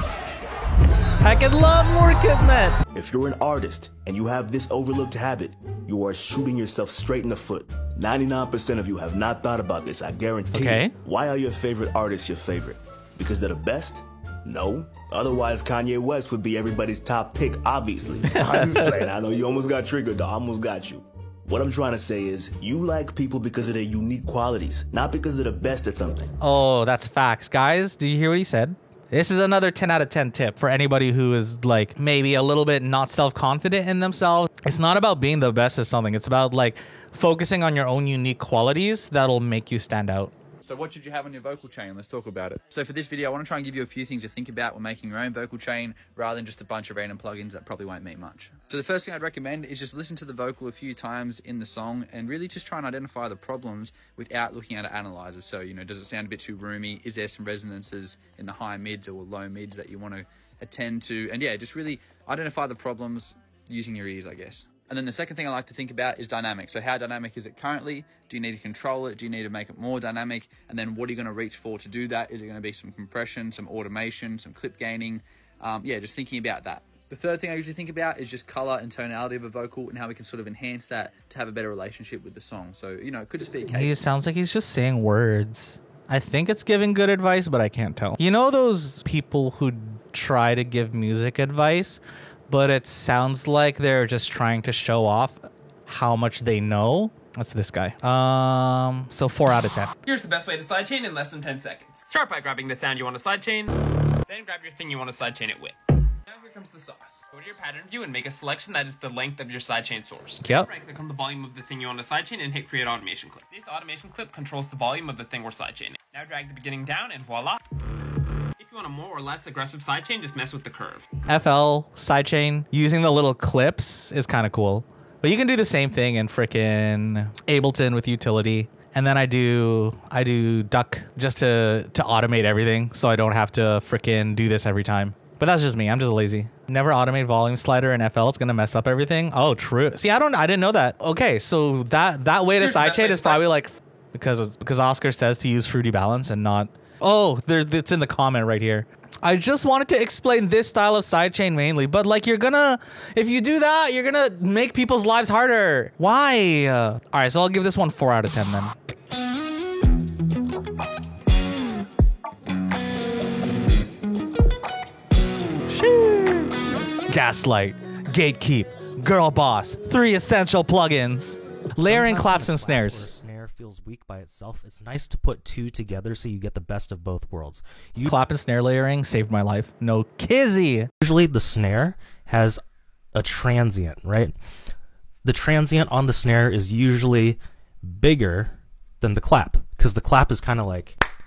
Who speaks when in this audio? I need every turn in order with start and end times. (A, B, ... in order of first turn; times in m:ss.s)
0:01.2-0:02.8 A
0:02.9-0:26.3 B
0:10.5-0:10.9 A
0:18.2-0:19.1 A
0:26.4-0:40.3 A
0:40.6-1:24.0 C
1:23.6-1:39.9 A
1:40.0-1:57.6 D
1:50.4-1:50.7 A
1:58.6-2:01.1 D
2:01.3-2:38.7 A
2:22.6-2:23.4 D
2:45.7-2:46.5 A
2:47.1-2:53.1 A
2:51.8-2:58.1 E
2:58.0-3:00.9 A
3:01.0-3:02.6 E
3:03.1-3:04.3 E
3:05.2-3:11.0 E